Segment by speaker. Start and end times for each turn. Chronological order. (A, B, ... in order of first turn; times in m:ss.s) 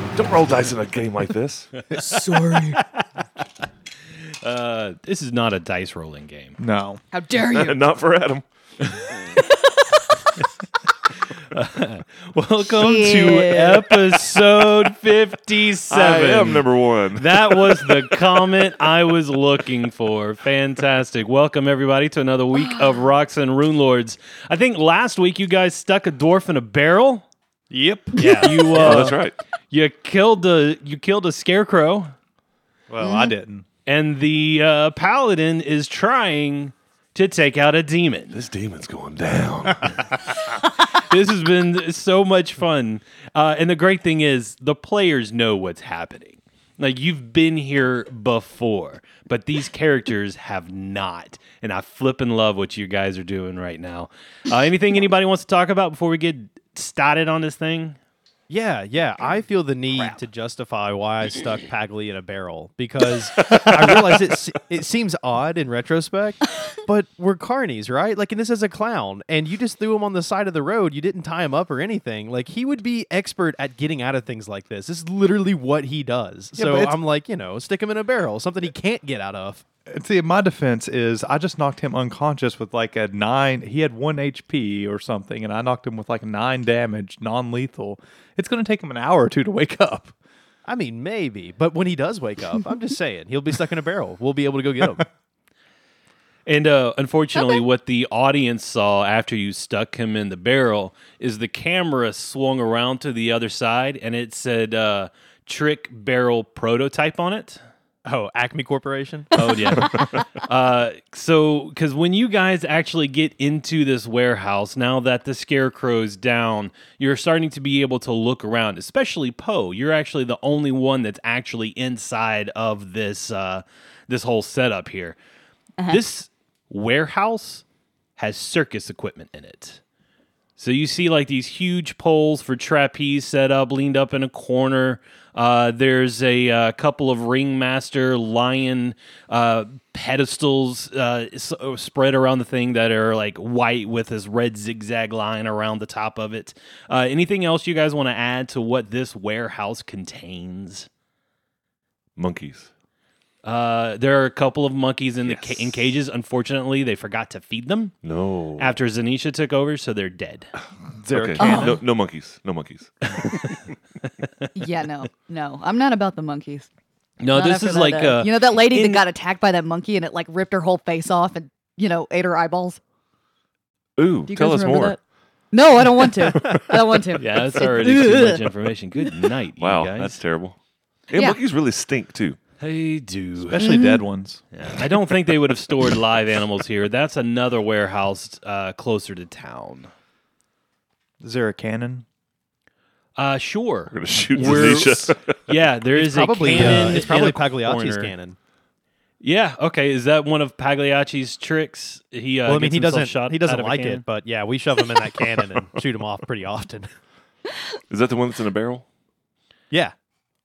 0:00.1-0:01.7 A
0:01.9-0:03.0 B
0:01.9-0:02.8 C
0:04.4-0:06.6 B
0:06.6-0:07.0 C
0:07.1-0:07.8 D
0:07.4-0:08.4 A
0:08.8-0:09.1 B
0:09.5-0:10.0 D
0:11.2-0:27.3 B
0:12.7-0:14.0 D
0:15.9-0:18.2 A
0:27.7-0:29.1 C
0:28.2-0:32.1 B
0:28.2-0:28.5 D
0:28.8-0:29.4 A
0:32.9-0:33.7 C
0:33.0-0:33.3 D
0:33.9-0:38.4 B
0:38.3-0:40.2 A
0:40.8-0:58.0 B
0:58.5-1:19.6 E
1:16.5-1:16.9 C
1:19.9-1:30.1 C
1:30.6-1:35.1 E
1:36.5-1:47.6 B
1:37.3-1:37.6 D
1:48.0-1:49.9 E
1:49.3-2:05.2 B
2:05.9-2:07.6 B
2:08.2-2:09.8 B
2:10.6-2:30.9 B
2:32.2-2:32.7 A
2:33.4-2:38.0 B
2:35.2-2:36.0 A
2:38.0-2:38.8 A
2:38.6-2:40.5 B
2:41.0-2:43.4 A
2:41.1-2:41.8 B
2:41.4-2:41.8 D
2:43.0-2:44.5 B
2:44.6-2:46.7 D
2:47.2-2:49.0 B
2:47.3-2:52.8 D
2:54.0-2:55.0 A
2:54.3-2:55.0 D
2:55.5-2:58.4 D
2:57.2-3:00.2 B
2:59.6-3:00.6 A
3:01.1-3:02.4 A
3:01.1-3:01.4 D
3:02.6-3:03.7 B
3:03.5-3:04.4 C
3:03.6-3:04.0 D
3:04.5-3:09.9 B
3:11.2-3:12.1 C
3:13.2-3:18.1 B
3:13.9-3:15.4 A
3:15.9-3:18.4 E
3:19.2-3:24.1 B
3:22.5-3:26.9 E
3:27.9-3:28.8 A